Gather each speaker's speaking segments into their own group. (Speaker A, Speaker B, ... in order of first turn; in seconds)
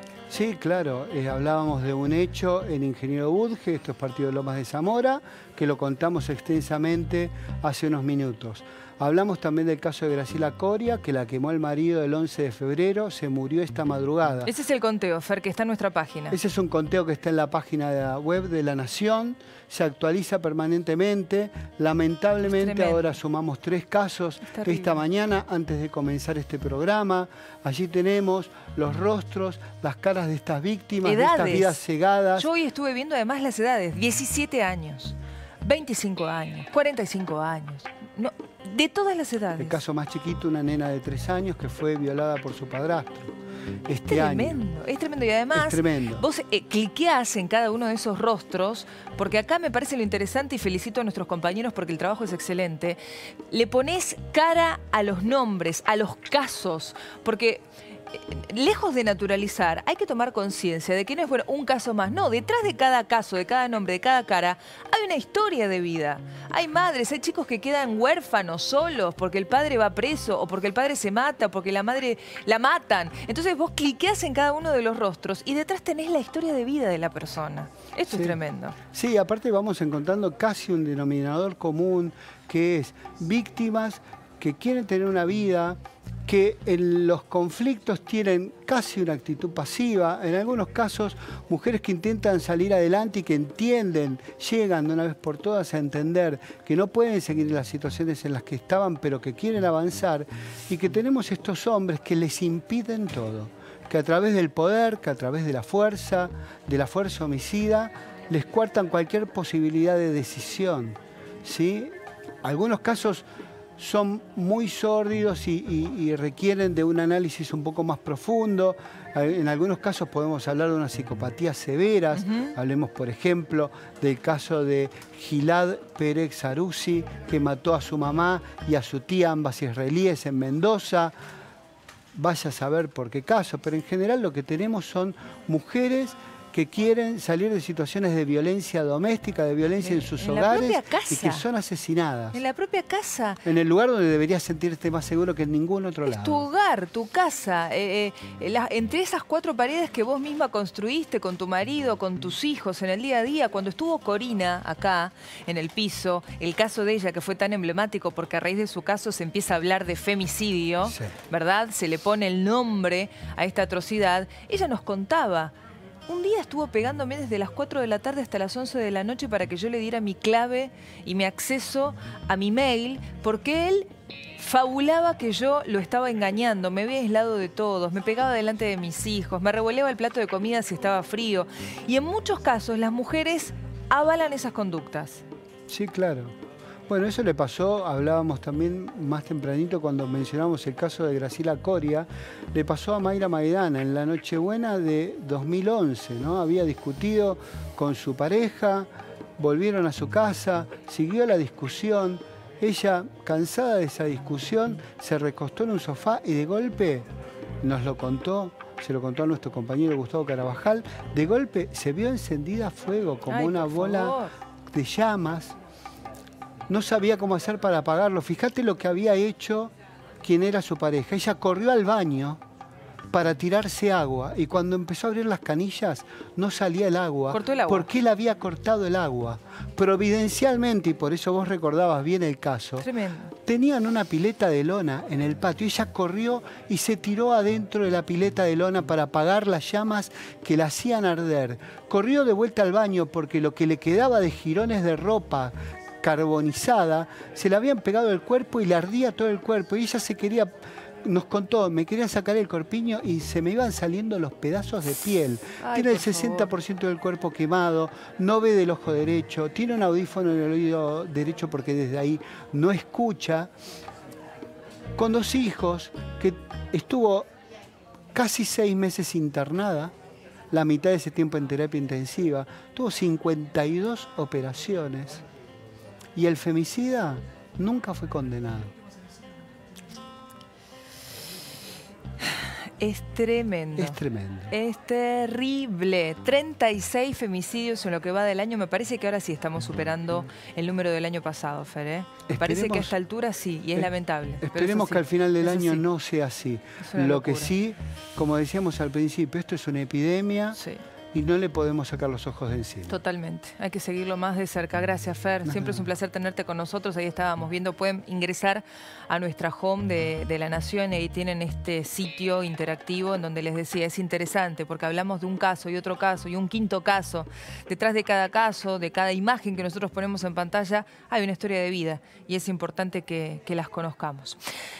Speaker A: 0.3-14.5, 16.3-32.5, 39.6-43.3, 43.9-44.6, 45.5-46.2, 78.1-78.4, 78.9-113.2, 113.8-131.1, 132.2-142.4, 143.4-146.4, 160.9-161.1, 185.7-186.3, 186.9-207.1, 207.6-214.2, 214.7-215.6, 216.7-222.4, 223.1-232.9, 233.4-250.5, 251.0-263.5, 265.0-267.3, 268.1-269.9, 270.5-275.2, 276.2-278.7, 283.8-284.5, 292.3-292.9, 293.8-300.6, 301.1-303.0, 305.4-305.9
Speaker B: 14.5-16.4, 22.4-23.1, 24.5-25.0, 31.0-31.8, 32.4-39.8, 44.0-53.0, 53.5-78.8, 122.2-122.5, 139.8-141.4, 142.3-143.4, 146.1-165.5, 166.1-185.2, 213.3-214.3, 227.3-227.9, 232.8-233.3, 255.6-256.5, 282.4-284.0, 284.5-295.8, 296.8-297.5, 300.6-300.8, 302.9-324.4